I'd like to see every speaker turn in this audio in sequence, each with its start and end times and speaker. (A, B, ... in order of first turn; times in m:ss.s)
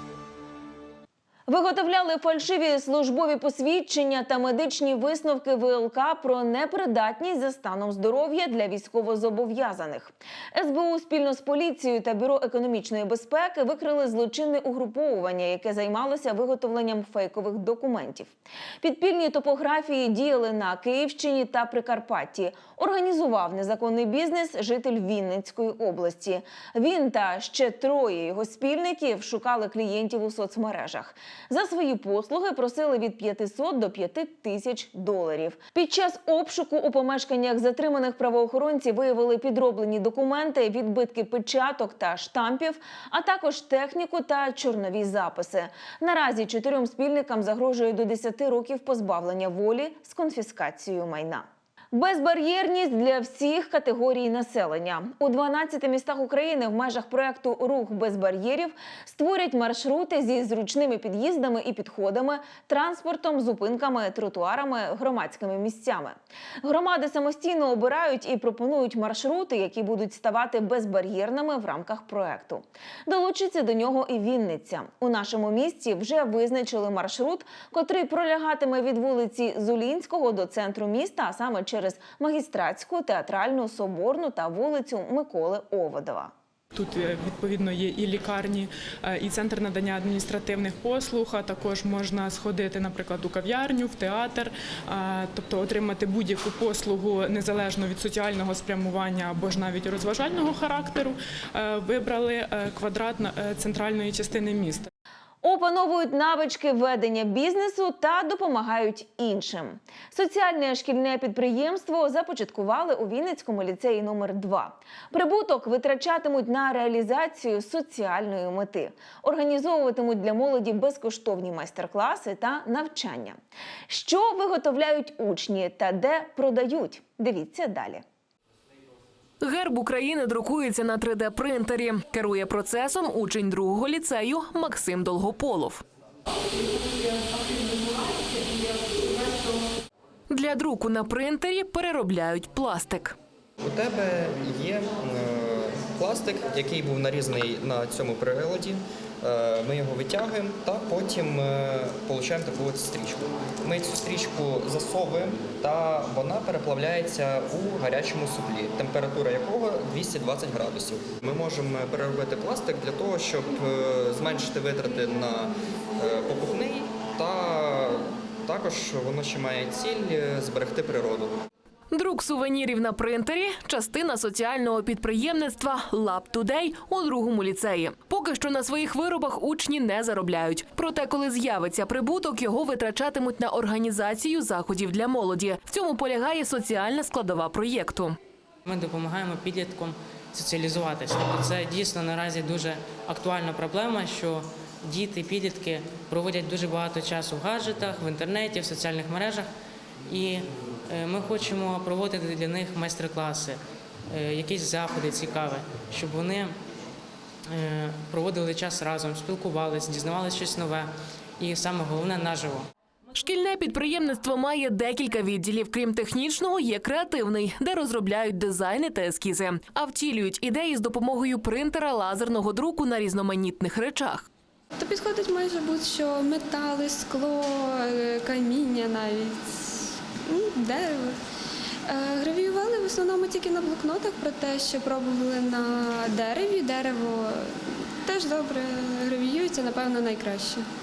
0:01.5-1:26.3 A
1:26.7-1:44.9 B
1:45.4-2:03.4 A
2:03.9-2:08.0 A
2:09.4-2:15.8 C
2:16.6-2:19.6 D
2:20.3-2:23.2 C
2:23.6-2:51.4 E
2:51.9-3:08.2 C
3:08.6-3:19.5 F
3:20.0-3:26.6 F
3:27.5-3:32.7 F
3:33.1-3:44.3 C
3:44.7-3:51.2 D
3:51.8-4:00.6 D